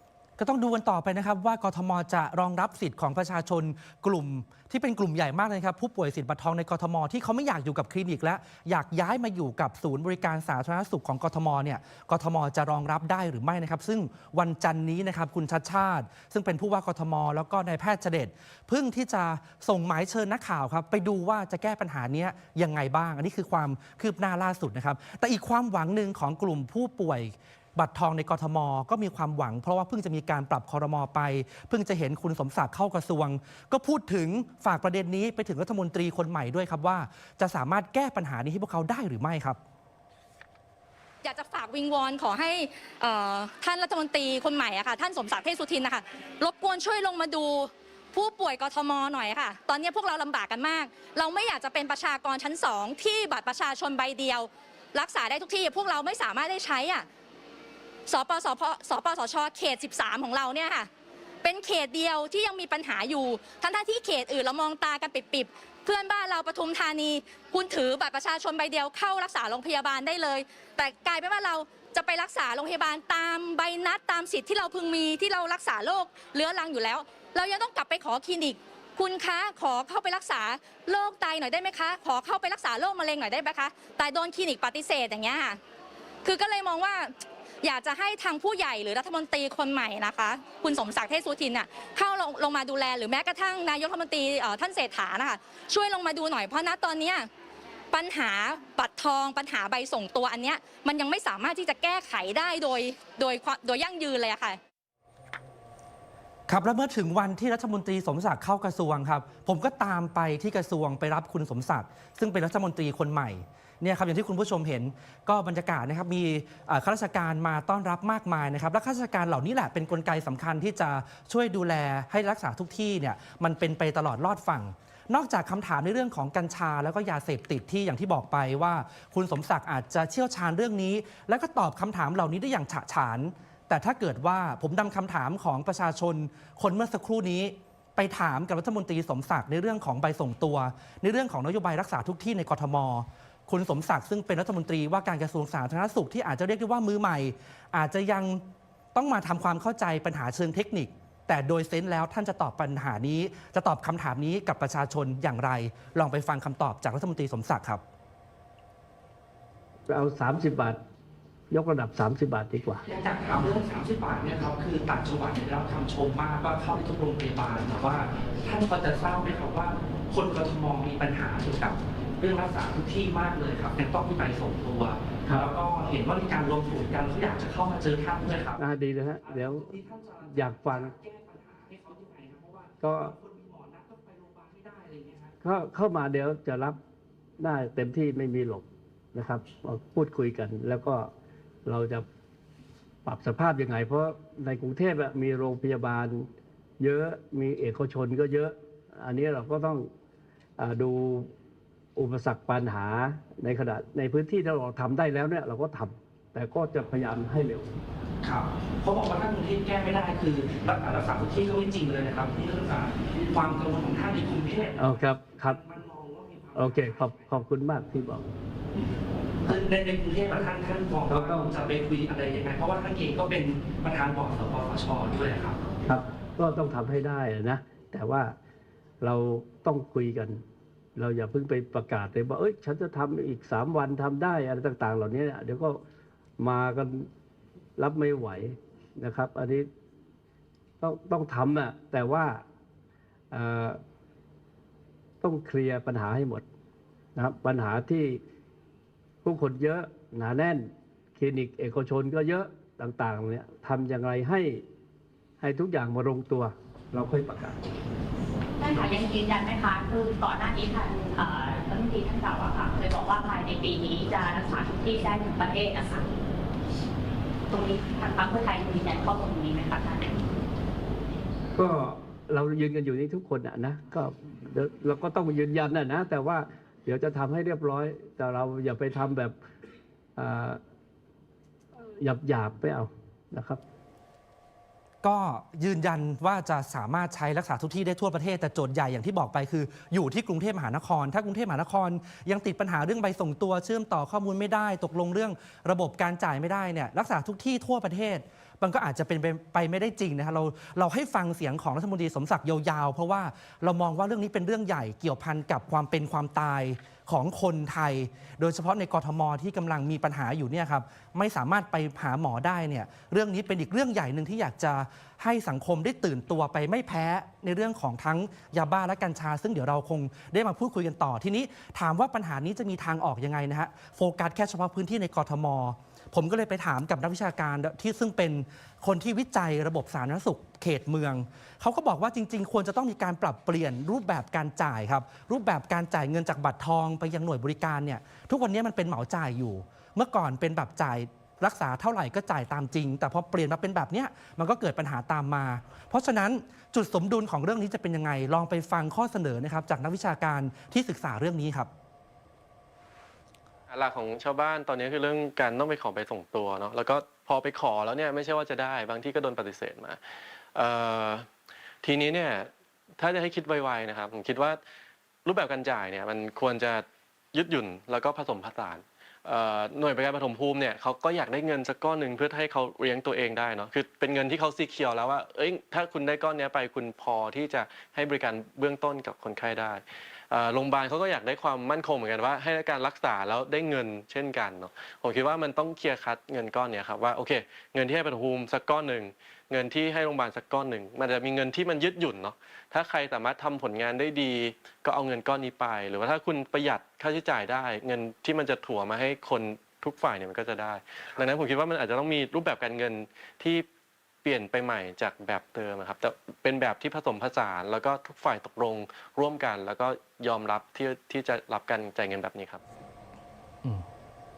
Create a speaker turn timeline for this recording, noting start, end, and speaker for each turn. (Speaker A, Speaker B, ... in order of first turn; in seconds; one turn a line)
Speaker A: 0.4-39.6
Speaker B: 41.2-57.1
Speaker B: 58.1-60.9
Speaker B: 61.4-85.6
Speaker B: 86.2-97.3
Speaker B: 97.9-104.6
Speaker A: 106.5-157.8
Speaker C: 159.9-160.8
Speaker C: 161.5-162.8
Speaker A: 162.9-178.6
Speaker C: 178.6-179.7
Speaker A: 179.2-185.3
Speaker C: 180.3-180.9
Speaker C: 182.8-183.2
Speaker C: 185.4-186.8
Speaker C: 187.4-191.1
Speaker C: 191.7-192.1
Speaker C: 193.1-196.3
Speaker C: 196.8-199.9
Speaker C: 200.6-201.3
Speaker C: 202.0-207.7
Speaker A: 208.2-217.3
Speaker C: 214.8-215.6
Speaker C: 216.6-218.3
Speaker A: 219.4-225.6
Speaker C: 221.1-221.5
Speaker C: 225.9-228.3
Speaker C: 229.0-230.4
Speaker C: 231.0-235.8
Speaker C: 236.4-237.1
Speaker C: 237.8-239.7
Speaker C: 240.8-242.4
Speaker C: 243.3-243.8
Speaker C: 245.2-246.5
Speaker C: 247.2-248.2
Speaker C: 249.2-254.6
Speaker C: 255.4-257.6
Speaker D: 258.6-266.1
Speaker C: 258.8-259.0
Speaker D: 267.5-270.2
Speaker C: 271.6-279.4
Speaker C: 280.2-280.6
Speaker C: 282.0-283.6
Speaker A: 285.0-351.7
Speaker E: 353.7-360.0
Speaker E: 360.6-361.3
Speaker E: 361.8-364.6
Speaker E: 365.2-403.7
Speaker E: 404.2-412.6